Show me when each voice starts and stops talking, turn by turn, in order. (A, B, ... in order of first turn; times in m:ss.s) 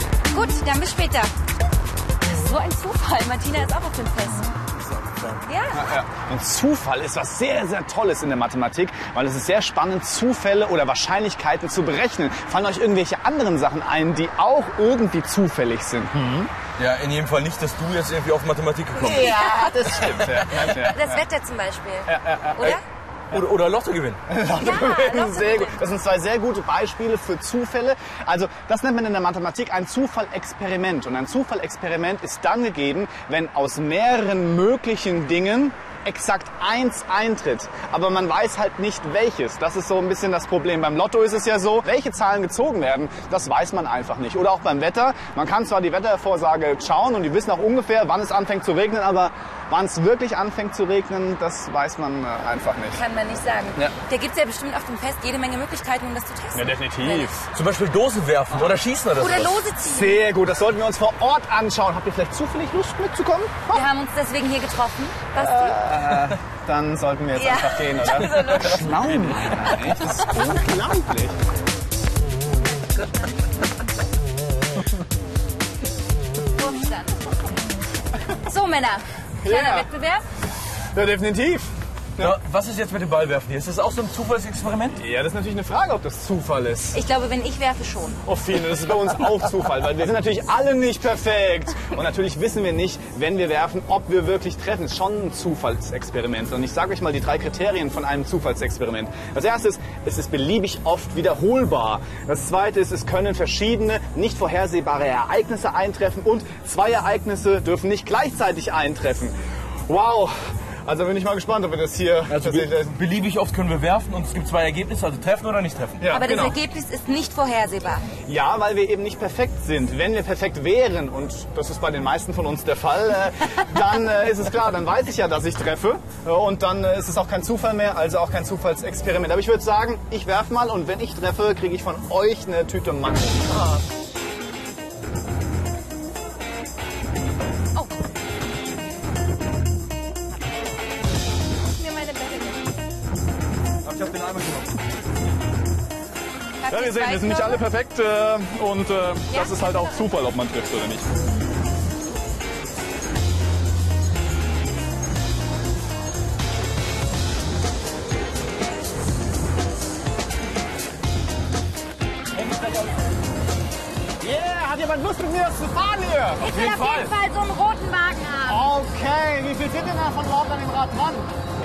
0:00.3-0:01.3 A
0:02.2-0:04.6 A
0:05.4-0:05.8 A
0:05.7-0:16.5 B
0:16.8-0:19.4 C
0:19.0-0:22.8 A
0:19.1-0:21.2 B
0:20.0-0:20.9 C
0:22.1-0:22.8 B
0:23.3-0:24.2 C
0:24.3-0:53.0 B
0:24.5-0:25.8 A
0:52.9-0:57.4 A
0:56.5-0:57.5 B
0:57.5-0:59.7 C
0:59.2-1:00.2 A
0:59.8-1:03.8 B
1:03.7-1:05.9 A
1:05.4-1:11.4 B
1:07.4-1:10.4 A
1:16.6-1:17.3 A
1:18.4-1:20.2 A
1:19.4-1:19.9 B
1:20.9-1:22.4 B
1:22.2-1:25.0 C
1:25.0-1:27.0 B
1:26.9-1:28.2 A
1:28.2-1:49.3 B
1:49.9-1:53.0 B
1:52.3-1:56.0 C
1:56.0-1:56.6 B
1:56.1-1:58.1 A
1:58.3-2:13.9 B
2:21.7-2:22.8 A
2:23.9-2:24.6 B
2:26.6-2:27.6 A
2:26.7-2:31.1 B
2:29.3-2:30.0 A
2:44.2-2:46.6 B
2:46.4-2:48.7 A
2:46.5-2:47.1 C
2:48.5-2:51.3 B